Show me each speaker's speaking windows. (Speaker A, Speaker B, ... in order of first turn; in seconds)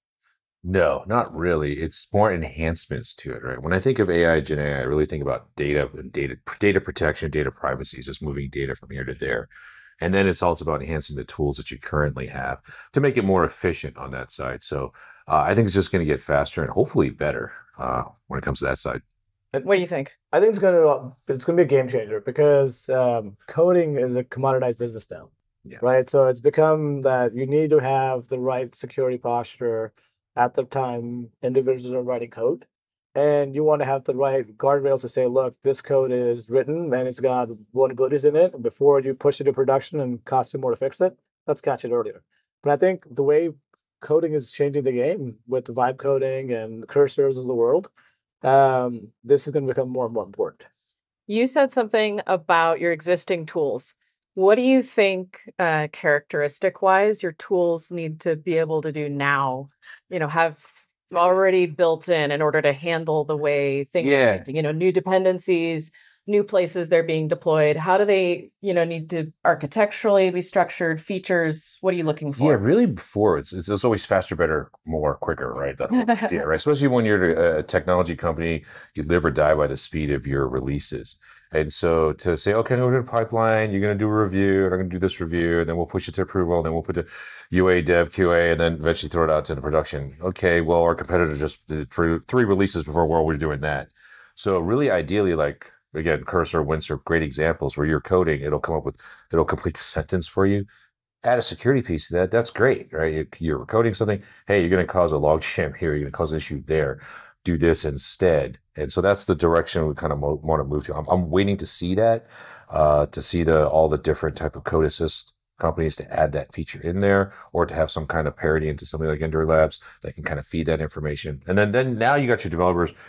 Speaker A: 0.6-9.5, 10.0-19.0, 64.0-64.5, 72.4-100.7, 101.2-122.9
Speaker B: 19.5-47.9, 48.4-50.7
Speaker C: 19.6-20.1, 51.3-72.6, 75.9-76.4